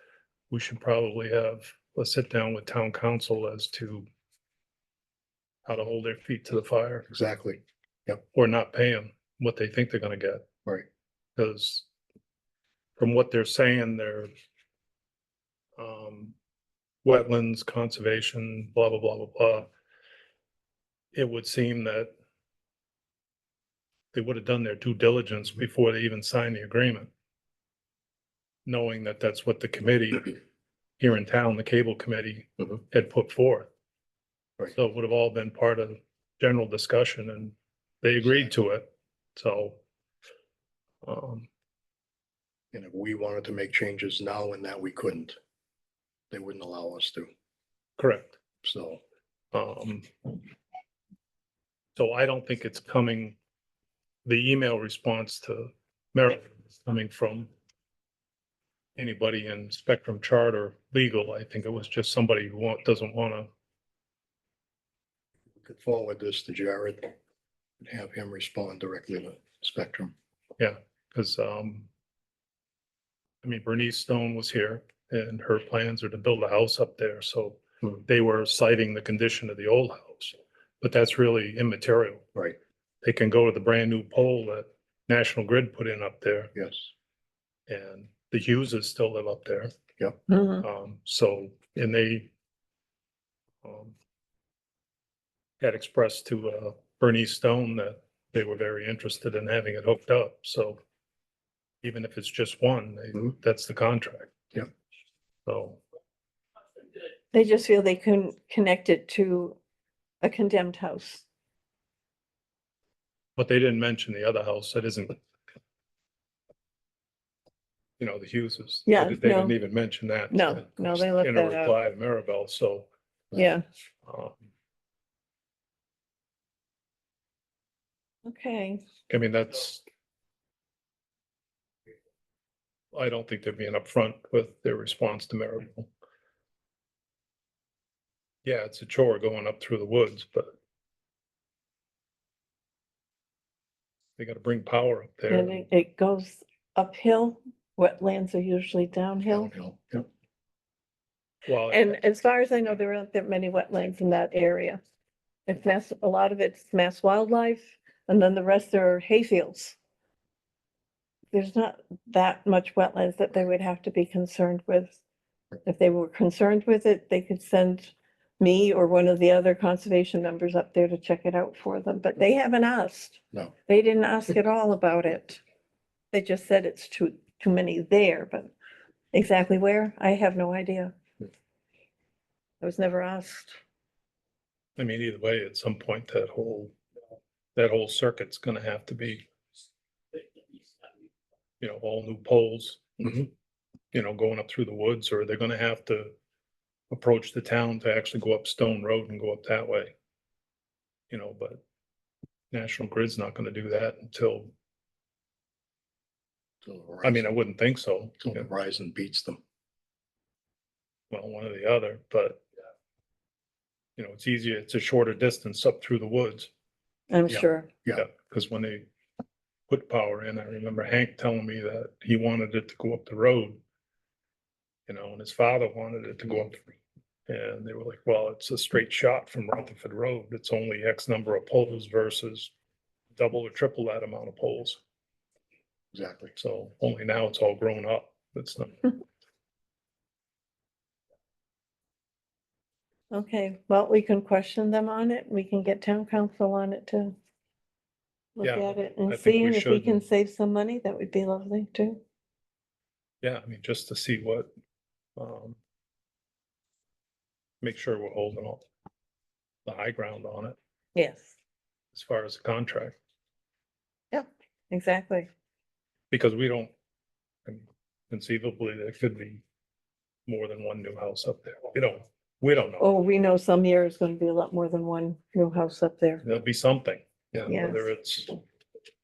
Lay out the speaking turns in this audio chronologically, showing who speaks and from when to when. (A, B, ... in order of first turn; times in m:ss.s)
0:00.5-0:04.1 A
0:05.7-0:07.1 A
0:07.1-0:08.2 B
0:08.3-0:10.4 A
0:11.4-0:11.9 A
0:13.0-0:14.3 A
0:15.8-0:16.4 A
0:17.0-0:19.7 A
0:21.1-0:22.1 A
0:24.1-0:27.1 A
0:28.7-0:30.4 A
0:31.0-0:33.7 A
0:34.7-0:39.8 A
0:41.0-0:41.5 A
0:42.7-0:45.4 B
0:46.3-0:47.3 B
0:48.0-0:48.4 A
0:48.6-0:49.0 B
0:49.5-0:50.1 A
0:52.0-0:53.4 A
0:54.2-0:57.5 A
0:59.0-1:03.5 A
1:05.6-1:07.2 B
1:07.8-1:10.1 B
1:10.6-1:11.9 A
1:13.4-1:22.3 A
1:23.0-1:26.5 A
1:26.6-1:26.9 B
1:27.7-1:29.8 A
1:30.3-1:30.7 C
1:30.6-1:32.3 A
1:33.6-1:34.0 A
1:35.6-1:40.8 A
1:41.8-1:44.5 A
1:45.5-1:45.8 A
1:47.3-1:49.6 C
1:50.2-1:51.2 C
1:53.4-1:55.2 A
1:58.0-2:02.9 A
1:58.9-1:59.6 C
2:00.3-2:01.8 C
2:03.4-2:03.6 C
2:04.1-2:04.4 A
2:08.2-2:08.8 C
2:09.1-2:09.9 A
2:12.9-2:15.9 A
2:18.4-2:20.5 A
2:24.2-2:25.6 A
2:25.3-2:29.5 C
2:29.3-2:30.1 B
2:31.4-2:32.0 A
2:31.7-2:34.8 C
2:35.5-2:39.8 C
2:41.3-2:45.0 C
2:45.6-2:55.4 C
2:56.1-2:58.5 C
2:59.1-3:01.0 C
3:02.6-3:03.6 C
3:04.8-3:06.8 A
3:07.6-3:09.3 A
3:11.6-3:13.3 A
3:13.9-3:16.1 A
3:16.9-3:19.9 A
3:21.1-3:21.6 A
3:22.5-3:24.5 A
3:26.6-3:27.3 B
3:27.0-3:28.5 A
3:28.2-3:29.4 B
3:31.1-3:32.4 A
3:34.0-3:36.5 A
3:37.1-3:37.7 C
3:37.3-3:38.1 B
3:37.9-3:38.9 A
3:39.7-3:43.6 A
3:44.9-3:52.5 A
3:53.2-3:54.8 A
3:55.9-3:56.3 B
3:56.4-3:58.9 A
4:03.1-4:07.2 C
4:08.4-4:12.0 C
4:08.4-4:10.0 A
4:13.2-4:14.5 A
4:15.2-4:15.6 A
4:17.6-4:18.6 A
4:19.7-4:20.6 A
4:21.0-4:21.4 C
4:21.9-4:23.0 A
4:24.1-4:25.3 C
4:26.1-4:26.7 A
4:27.5-4:29.4 A
4:30.3-4:32.8 A
4:32.8-4:36.2 C
4:36.2-4:38.4 A
4:37.5-4:37.9 C